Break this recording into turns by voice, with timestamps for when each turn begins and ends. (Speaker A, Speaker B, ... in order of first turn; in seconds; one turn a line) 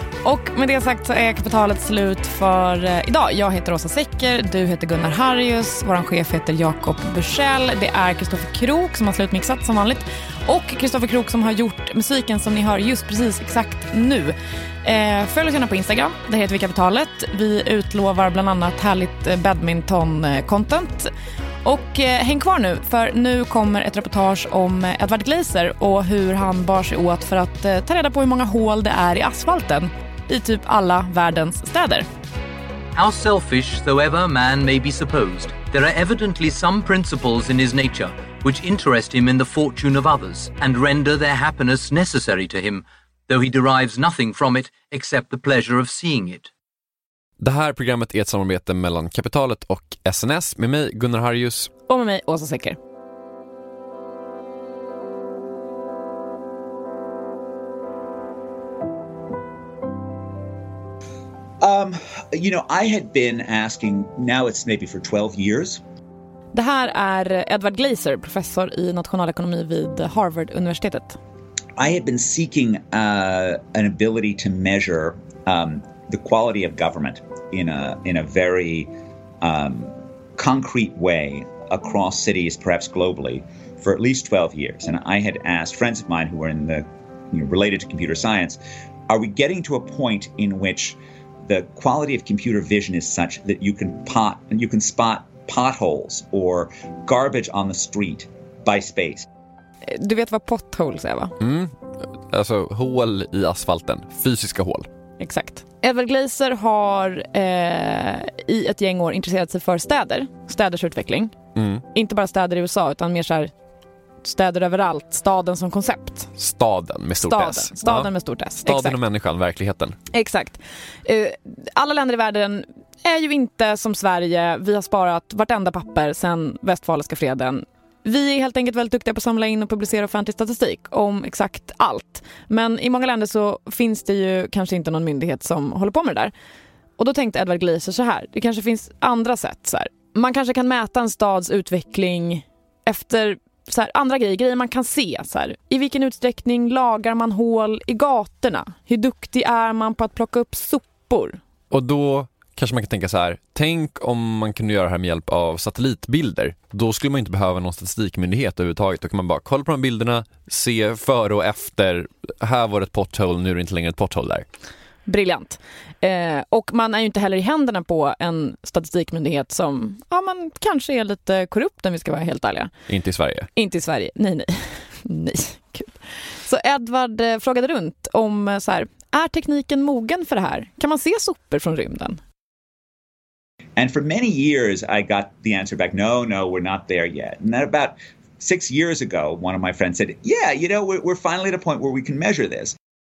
Speaker A: 0.2-21.1
Speaker A: 21.6-32.0
Speaker B: 32.9-46.5
Speaker C: 47.4-51.7
Speaker A: 51.9-52.8
Speaker D: 61.6-65.8
Speaker A: 66.5-71.2
Speaker D: 71.8-99.3
Speaker A: 99.8-101.3
Speaker C: 101.4-104.9
Speaker A: 105.2-111.3
Speaker C: 111.5-111.8
Speaker A: 111.9-113.5
Speaker A: 114.2-116.3
Speaker C: 116.4-118.1
Speaker A: 117.2-119.0
Speaker C: 118.6-120.0
Speaker A: 120.1-136.3
Speaker A: 137.0-151.4
Speaker C: 151.7-164.4
Speaker A: 165.1-172.7
Speaker C: 172.9-173.5
Speaker A: 173.5-182.2
Speaker D: 183.8-192.7